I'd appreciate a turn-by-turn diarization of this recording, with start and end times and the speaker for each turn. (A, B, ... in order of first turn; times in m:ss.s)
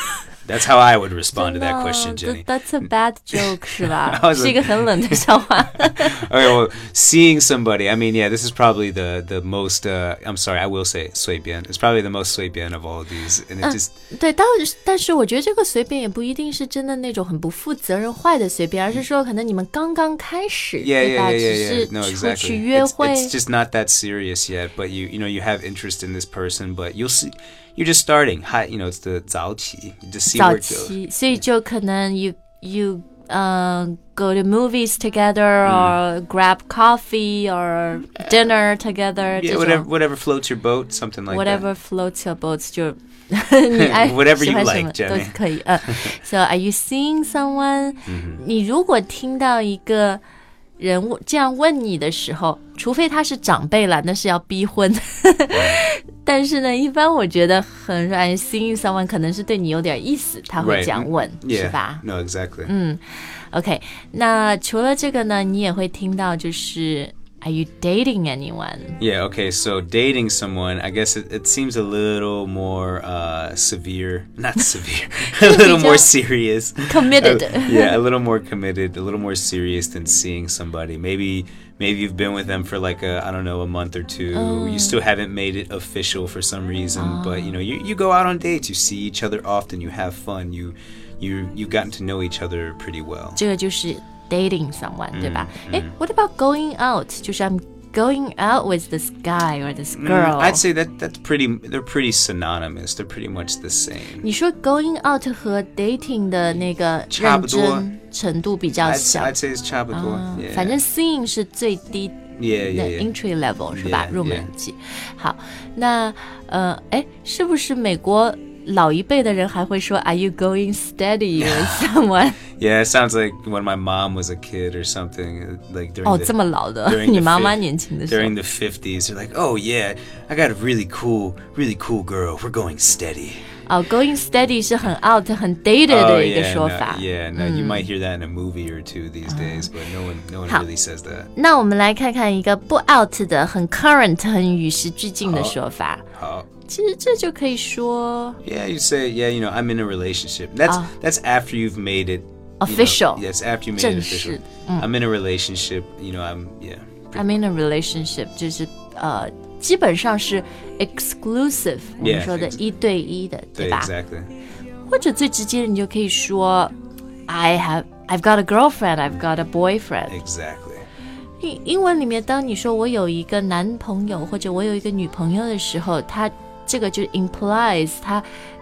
0:00.4-0:02.4 A
0:01.4-0:06.3 B
0:03.3-0:13.9 A
0:13.6-0:23.3 B
0:20.8-0:31.0 A
0:30.3-0:39.9 B
0:35.6-0:36.0 A
0:39.4-0:41.7 A
0:41.3-0:50.2 B
0:43.7-0:46.2 A
0:48.1-0:48.4 A
0:50.8-1:02.0 B
0:55.5-0:55.8 A
1:00.6-1:02.7 A
1:02.7-1:09.0 B
1:09.0-1:33.4 A
1:15.4-1:16.1 B
1:16.9-1:18.0 B
1:24.3-1:25.0 B
1:27.0-1:27.5 B
1:33.4-1:40.6 B
1:35.1-1:35.9 A
1:39.9-1:44.3 A
1:44.2-1:49.4 B
1:47.1-1:47.9 A
1:48.8-1:50.8 A
1:49.9-2:02.4 B
1:52.4-1:53.1 A
1:53.7-1:54.5 A
2:01.4-2:01.9 A
2:02.6-2:06.3 A
2:06.0-2:08.4 B
2:06.9-2:13.4 A
2:13.7-2:17.9 B
2:15.9-2:21.3 A
2:19.3-2:19.7 B
2:21.4-2:26.0 B
2:25.2-2:25.6 A
2:26.1-2:26.5 A
2:26.7-2:28.4 B
2:28.4-2:37.3 A
2:32.6-2:34.9 B
2:37.2-2:43.9 B
2:42.0-2:42.6 A
2:43.6-2:44.3 A
2:44.9-2:46.7 B
2:47.3-2:50.2 B
2:50.1-2:50.9 A
2:51.4-2:58.3 B